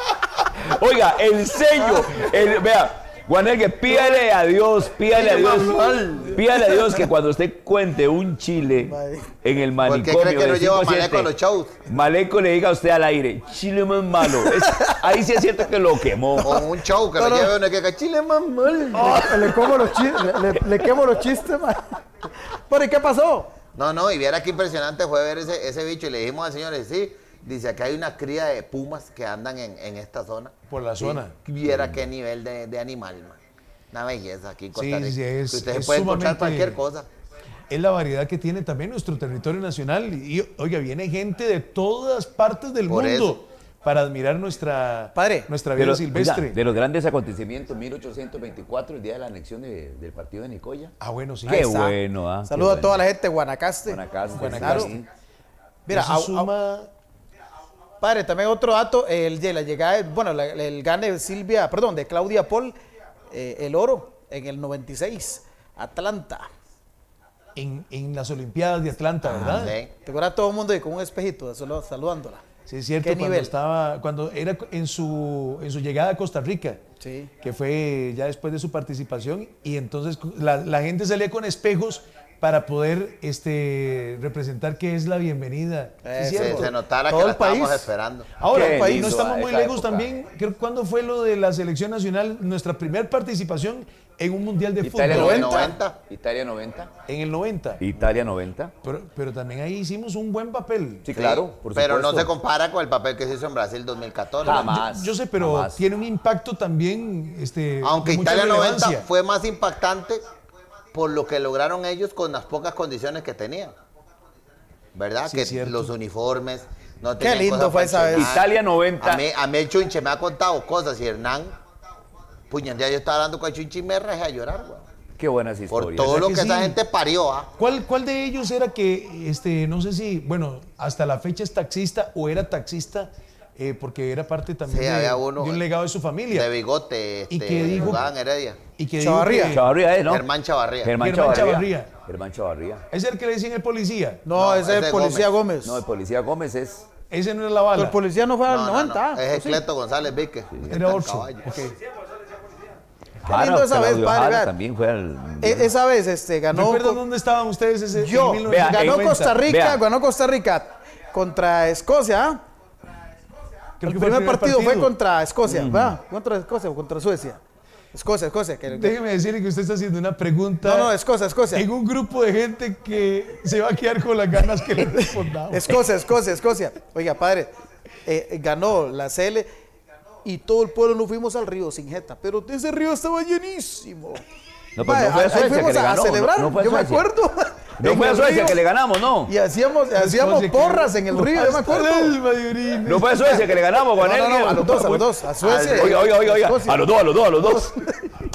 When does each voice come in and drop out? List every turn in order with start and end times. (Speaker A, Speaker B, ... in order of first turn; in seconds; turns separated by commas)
Speaker A: 0.5-11.3, Speaker B: 5.2-7.0, Speaker B: 8.8-9.3, Speaker C: 9.8-11.8, Speaker A: 11.9-16.6, Speaker B: 14.5-14.9, Speaker B: 16.4-16.6, Speaker C: 16.4-19.3, Speaker B: 17.2-17.5, Speaker B: 18.9-23.5, Speaker A: 19.0-19.6, Speaker C: 23.8-33.4, Speaker D: 30.7-31.3, Speaker A: 31.7-32.0, Speaker C: 33.9-37.1, Speaker D: 34.7-36.8, Speaker D: 37.7-46.6, Speaker C: 42.9-43.4, Speaker B: 45.1-45.5, Speaker A: 45.8-50.9, Speaker D: 51.0-51.7, Speaker B: 51.5-55.0, Speaker A: 51.5-53.0, Speaker A: 53.9-55.1, Speaker D: 54.3-55.0, Speaker B: 55.9-56.5, Speaker D: 55.9-56.9, Speaker B: 58.0-62.8, Speaker B: 63.3-66.5, Speaker D: 67.5-69.8, Speaker C: 69.3-69.9, Speaker B: 70.0-72.4, Speaker D: 72.7-76.8, Speaker B: 73.0-73.5, Speaker B: 77.0-77.3, Speaker D: 77.4-86.7, Speaker B: 86.0-87.9, Speaker C: 86.3-88.3, Speaker D: 88.3-95.7, Speaker A: 88.5-90.1, Speaker B: 88.5-89.2, Speaker A: 94.8-96.9, Speaker C: 95.1-96.0, Speaker B: 95.1-95.7, Speaker D: 97.1-97.8, Speaker A: 97.8-98.7, Speaker D: 98.8-101.1, Speaker A: 101.0-102.3, Speaker C: 101.1-104.8, Speaker A: 104.4-105.8, Speaker D: 104.7-109.1, Speaker C: 107.8-110.2, Speaker C: 110.9-113.7, Speaker C: 115.0-121.6, Speaker D: 115.3-115.9, Speaker B: 117.2-118.3, Speaker A: 118.1-119.2, Speaker C: 122.5-124.8, Speaker A: 125.2-126.3, Speaker C: 125.7-127.5, Speaker D: 126.0-126.8, Speaker D: 127.6-136.5, Speaker C: 134.7-135.6, Speaker C: 136.3-138.6, Speaker D: 137.3-138.1, Speaker D: 138.8-139.7, Speaker B: 139.0-139.6, Speaker A: 139.5-140.3, Speaker C: 140.1-141.0, Speaker A: 140.8-142.8, Speaker D: 141.0-141.9, Speaker D: 142.9-144.3, Speaker B: 144.3-145.8, Speaker C: 144.3-145.3, Speaker A: 145.6-146.8, Speaker D: 147.1-148.0, Speaker B: 147.8-149.6, Speaker C: 148.5-151.6, Speaker D: 150.7-151.8, Speaker A: 153.2-155.7, Speaker B: 153.3-154.5, Speaker B: 155.4-157.0, Speaker D: 156.5-159.4, Speaker B: 157.9-162.4, Speaker A: 158.5-159.8, Speaker D: 163.8-164.9, Speaker B: 163.8-167.4, Speaker A: 165.5-166.0, Speaker B: 167.9-169.0, Speaker D: 168.7-170.9, Speaker B: 170.6-171.7, Speaker D: 171.5-175.8, Speaker B: 175.5-177.5, Speaker B: 178.1-179.5, Speaker B: 180.2-184.2, Speaker A: 184.8-187.1, Speaker B: 184.8-188.6, Speaker A: 187.8-189.3, Speaker B: 189.3-192.2, Speaker D: 189.9-193.3, Speaker A: 192.8-197.9, Speaker B: 193.2-196.9, Speaker C: 195.4-196.1, Speaker B: 197.4-197.9